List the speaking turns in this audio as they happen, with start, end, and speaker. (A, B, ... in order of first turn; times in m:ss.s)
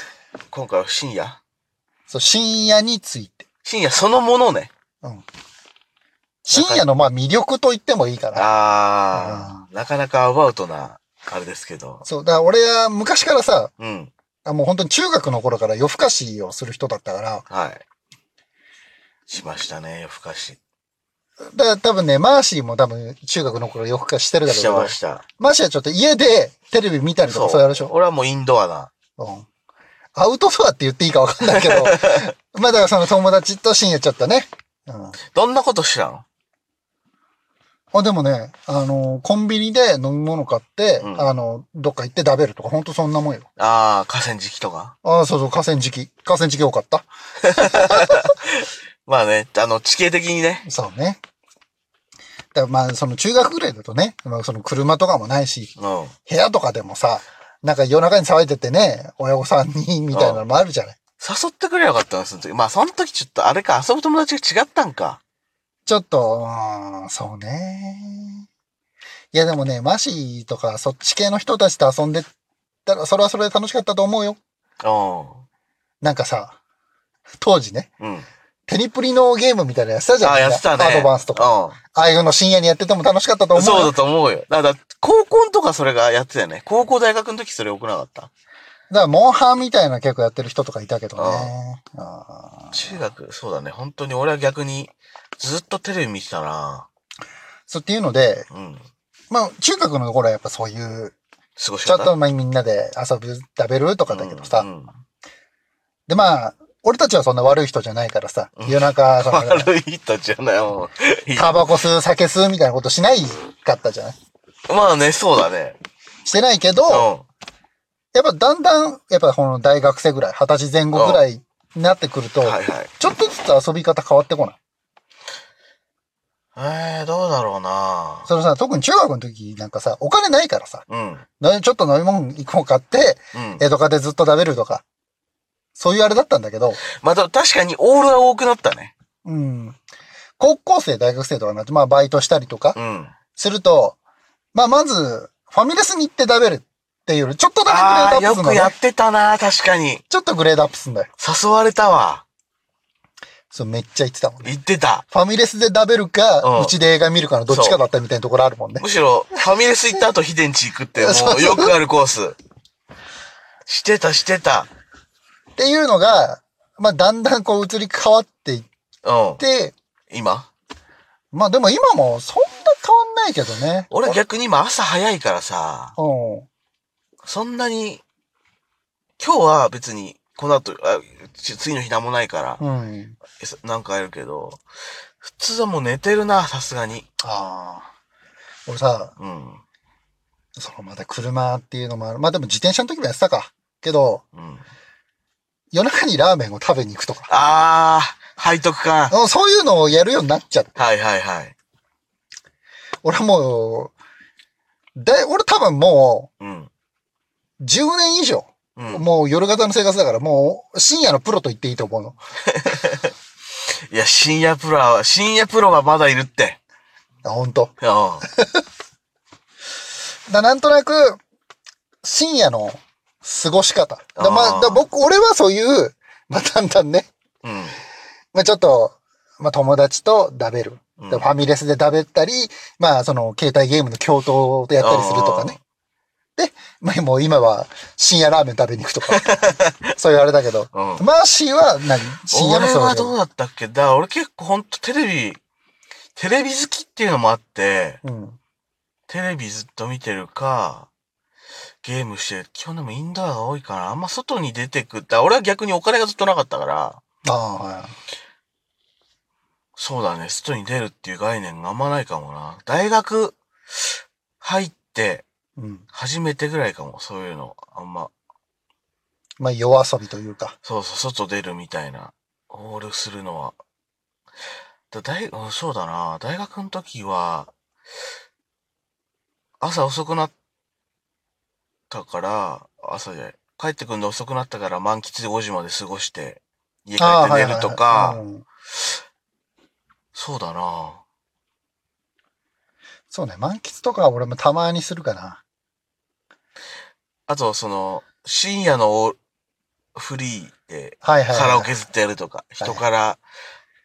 0:00.5-0:01.4 A
0:02.1-0:03.4 B
0:03.6-0:04.7 A
0:06.4-0:08.5 B
0:06.5-0:06.9 A
0:08.3-0:12.0 A
0:09.1-0:09.6 B
0:12.0-0:13.7 B
0:13.8-0:14.1 A
0:14.4-0:17.4 B
0:17.5-0:17.8 A
0:19.3-0:20.6 A
0:21.5-0:27.9 B
0:24.4-0:25.2 A
0:27.2-0:28.9 A
0:29.2-0:29.5 B
0:30.1-0:35.2 B
0:31.4-0:32.3 A
0:35.3-0:36.2 A
0:37.9-0:43.5 B
0:41.0-0:41.3 A
0:43.6-0:44.9 A
0:45.0-0:48.2 B
0:47.4-0:50.6 A
0:50.6-0:51.2 B
0:52.5-0:55.7 B
0:55.8-0:56.1 A
0:56.3-1:01.0 B
1:00.1-1:00.4 A
1:01.2-1:05.2 A
1:05.8-1:08.5 B
1:09.3-1:12.3 B
1:12.8-1:14.4 B
1:14.8-1:15.4 A
1:16.0-1:16.6 B
1:17.4-1:17.9 B
1:18.0-1:18.3 A
1:18.7-1:23.9 B
1:20.2-1:21.8 A
1:23.5-1:28.3 A
1:28.9-1:33.0 B
1:31.2-1:31.5 A
1:32.7-1:36.9 A
1:37.7-1:38.5 B
1:38.5-1:38.8 A
1:39.3-1:41.2 B
1:41.6-1:42.1 A
1:41.8-1:44.7 B
1:44.1-1:45.0 A
1:46.1-1:49.7 B
1:48.6-1:51.8 A
1:51.4-1:54.2 B
1:54.7-1:55.8 A
1:56.2-1:57.1 B
1:56.9-1:57.2 A
1:58.1-2:04.6 B
2:00.9-2:01.2 A
2:02.4-2:02.9 A
2:06.5-2:08.3 A
2:08.3-2:10.8 B
2:10.9-2:11.2 A
2:11.4-2:14.8 B
2:13.3-2:13.6 A
2:15.8-2:16.8 B
2:16.9-2:18.9 A
2:19.2-2:19.8 B
2:20.4-2:22.8 B
2:22.7-2:23.1 A
2:23.4-2:24.0 B
2:24.5-2:28.7 B
2:27.6-2:30.0 A
2:30.1-2:31.1 B
2:31.2-2:32.2 A
2:33.5-2:34.5 B
2:34.4-2:35.0 A
2:35.1-2:38.8 B
2:36.4-2:36.7 A
2:37.5-2:37.8 A
2:38.8-2:42.4 A
2:41.0-2:41.7 B
2:43.6-2:44.7 A
2:45.6-2:48.7 B
2:49.0-2:49.4 A
2:49.4-2:49.7 B
2:50.1-2:50.5 A
2:51.3-2:54.2 B
2:53.9-2:55.9 A
2:56.0-2:56.5 B
2:57.2-2:58.0 A
2:59.2-3:02.6 A
3:02.6-3:03.2 B
3:03.4-3:04.6 A
3:05.2-3:07.1 A
3:07.2-3:07.9 B
3:08.7-3:09.1 B
3:09.2-3:09.6 A
3:10.6-3:14.2 B
3:14.3-3:14.6 A
3:15.7-3:17.3 B
3:17.3-3:19.2 A
3:19.1-3:20.7 B
3:20.8-3:21.5 A
3:23.0-3:23.9 B
3:25.0-3:26.3 B
3:26.4-3:26.7 A
3:27.6-3:32.2 B
3:28.8-3:29.0 A
3:32.5-3:33.1 A
3:33.9-3:36.6 A
3:37.2-3:38.6 B
3:37.8-3:38.3 A
3:40.3-3:41.2 B
3:42.0-3:47.1 B
3:44.2-3:44.9 A
3:47.4-3:47.7 A
3:48.3-3:55.6 B
3:51.0-3:51.3 A
3:54.8-3:55.6 A
3:56.4-3:59.3 B
3:59.1-3:59.9 A
4:00.0-4:03.1 B
4:00.7-4:01.0 A
4:02.3-4:05.4 A
4:06.2-4:08.0 A
4:08.0-4:08.4 B
4:09.1-4:10.9 A
4:11.8-4:17.0 A
4:17.2-4:17.9 B
4:19.8-4:23.4 A
4:24.4-4:25.2 A
4:25.6-4:25.8 B
4:25.9-4:28.1 A
4:29.4-4:30.6 B
4:30.6-4:33.6 A
4:34.9-4:37.5 A
4:39.6-4:40.3 A
4:41.9-4:48.2 A
4:47.0-4:48.4 B
4:50.1-4:51.0 A
4:53.1-4:55.4 B
4:57.3-4:59.2 A
4:59.9-5:03.2 A
5:01.0-5:01.7 B